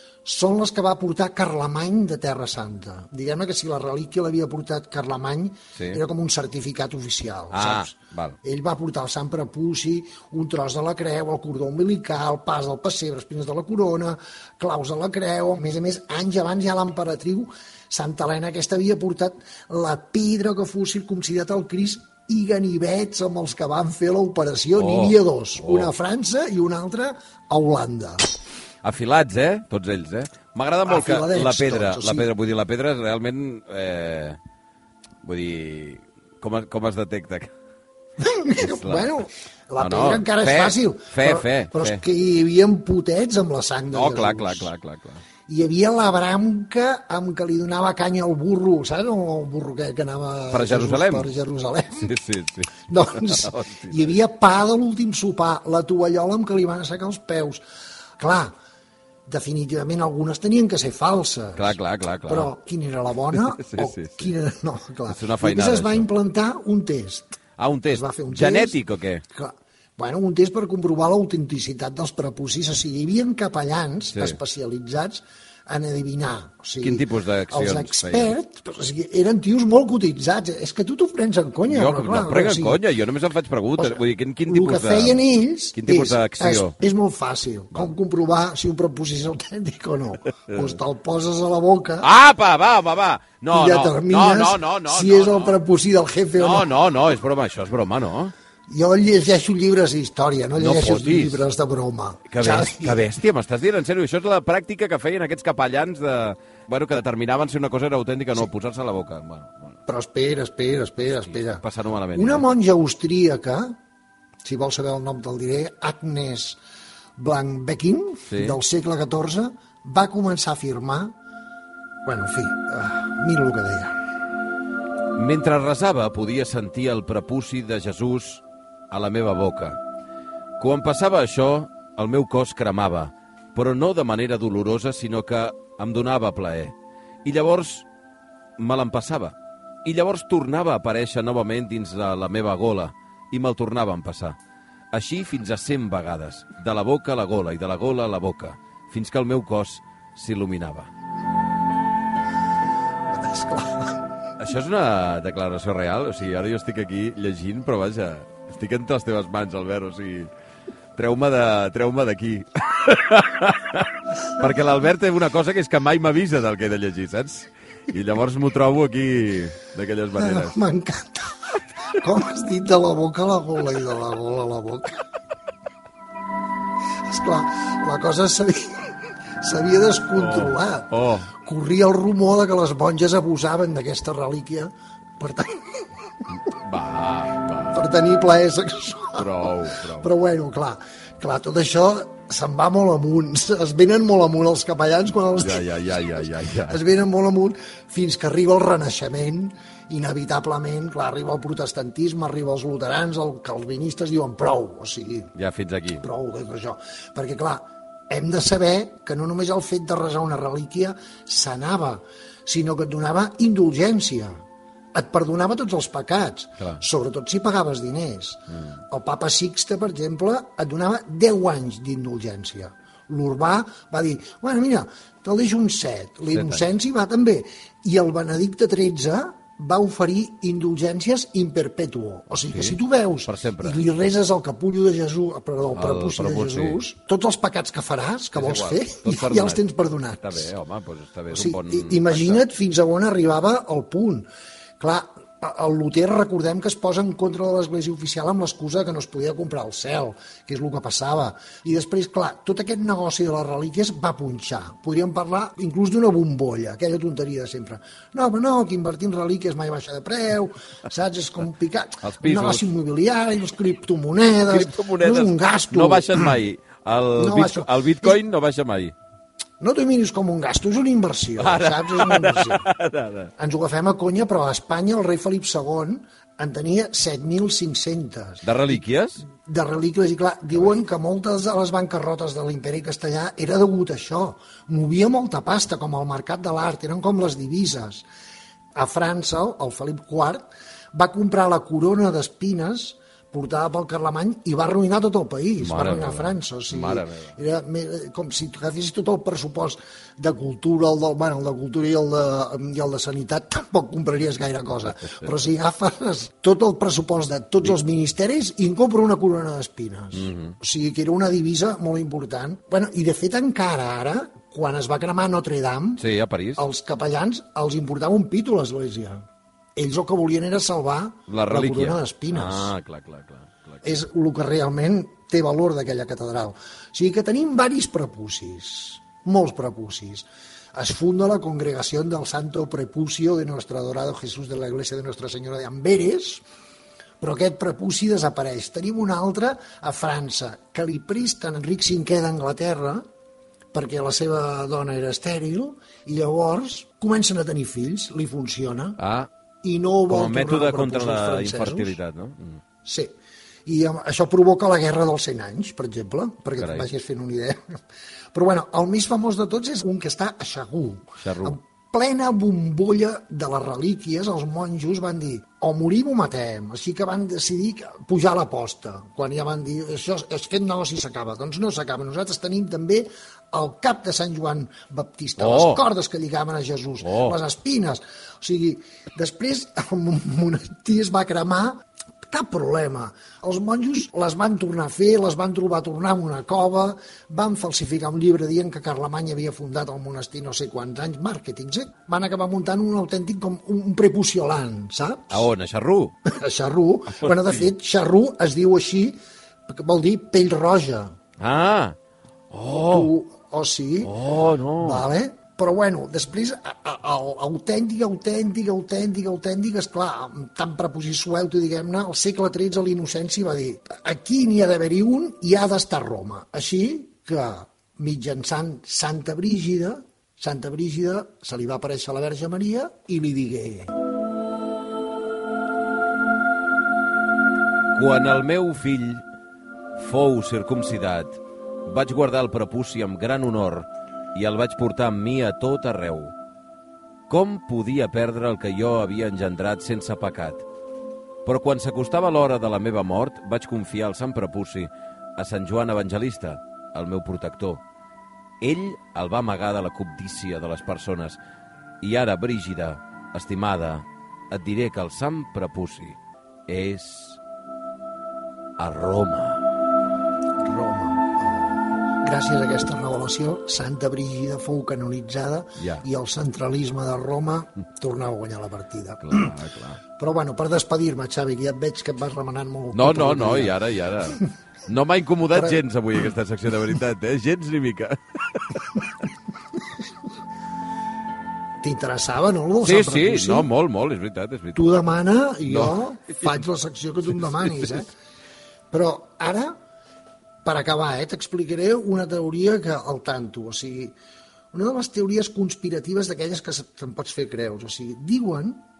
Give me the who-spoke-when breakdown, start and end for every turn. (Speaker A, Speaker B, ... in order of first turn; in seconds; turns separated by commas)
Speaker A: 0.2-28.2, Speaker B: 5.7-6.0, Speaker B: 7.5-8.4, Speaker B: 24.7-25.9, Speaker B: 28.8-34.4, Speaker A: 30.9-32.3, Speaker B: 35.2-37.5, Speaker A: 38.2-44.7, Speaker B: 38.6-39.2, Speaker B: 39.8-42.0, Speaker B: 43.9-45.2, Speaker A: 45.5-52.1, Speaker B: 50.5-51.3, Speaker B: 52.0-54.1, Speaker A: 52.9-57.6, Speaker A: 58.2-58.5, Speaker A: 59.3-61.8, Speaker B: 61.6-62.5, Speaker A: 62.3-67.4, Speaker B: 63.3-64.3, Speaker B: 65.1-66.1, Speaker B: 67.6-69.2, Speaker A: 67.9-68.8, Speaker A: 69.3-82.8, Speaker B: 76.8-78.3, Speaker B: 81.7-85.2, Speaker A: 83.8-92.1, Speaker B: 85.7-86.7, Speaker B: 92.0-95.5, Speaker A: 93.5-96.7, Speaker B: 96.4-98.3, Speaker A: 98.7-103.0, Speaker B: 100.6-101.4, Speaker B: 102.3-109.8, Speaker A: 109.9-111.6, Speaker B: 111.2-112.4, Speaker A: 112.1-113.8, Speaker A: 114.4-116.6, Speaker A: 117.2-121.2, Speaker B: 118.3-118.6, Speaker A: 122.0-124.0, Speaker B: 125.1-129.8, Speaker B: 130.6-136.7, Speaker B: 137.2-137.8, Speaker B: 138.6-144.4, Speaker B: 144.9-150.9, Speaker A: 153.1-154.0, Speaker B: 154.4-160.3, Speaker B: 160.9-170.6, Speaker A: 170.2-175.0, Speaker A: 177.0-185.9, Speaker B: 180.1-181.3, Speaker B: 186.4-187.8, Speaker A: 187.7-195.7, Speaker B: 189.1-190.1, Speaker B: 195.4-196.8, Speaker A: 196.6-205.3, Speaker B: 205.3-206.0, Speaker A: 206.0-214.3, Speaker A: 214.9-240.5, Speaker B: 226.3-226.6, Speaker B: 232.4-233.8, Speaker B: 235.7-236.8, Speaker B: 238.3-239.7, Speaker B: 240.2-242.4, Speaker A: 241.3-244.3, Speaker A: 244.8-266.3, Speaker B: 262.0-262.7, Speaker B: 264.5-268.9, Speaker A: 267.2-268.2, Speaker A: 269.6-272.6, Speaker B: 271.4-273.3, Speaker A: 273.4-278.8, Speaker B: 278.4-279.2, Speaker A: 279.3-288.1, Speaker A: 288.7-316.0, Speaker B: 295.6-297.4, Speaker B: 310.1-310.5, Speaker B: 316.0-316.6, Speaker A: 316.6-322.7, Speaker B: 321.3-323.8, Speaker A: 323.8-336.4, Speaker A: 337.2-343.0, Speaker A: 343.7-349.0, Speaker B: 349.0-349.3, Speaker A: 349.6-352.0, Speaker B: 350.1-352.6, Speaker A: 352.8-353.1, Speaker A: 353.6-357.8, Speaker B: 356.6-356.9, Speaker A: 358.3-395.5, Speaker B: 361.2-361.6, Speaker B: 375.4-375.8, Speaker B: 377.0-377.4, Speaker B: 395.3-396.1, Speaker A: 396.2-401.1, Speaker B: 397.1-397.7, Speaker B: 401.4-401.9, Speaker B: 402.5-403.1, Speaker A: 402.8-404.1, Speaker B: 404.0-405.0, Speaker A: 404.8-423.9, Speaker B: 427.9-429.2, Speaker B: 430.0-436.3, Speaker B: 437.3-440.6, Speaker B: 441.4-447.8, Speaker B: 448.6-451.4, Speaker B: 452.0-456.2, Speaker B: 456.7-457.4, Speaker B: 458.8-459.6, Speaker A: 460.6-469.5, Speaker B: 465.8-466.0, Speaker B: 469.2-470.0, Speaker A: 470.2-473.8, Speaker B: 472.9-478.8, Speaker A: 475.5-475.8, Speaker A: 481.8-483.7, Speaker B: 482.8-484.9, Speaker A: 484.7-488.1, Speaker B: 485.6-486.5, Speaker A: 488.9-489.8, Speaker A: 490.6-494.1, Speaker A: 494.7-498.8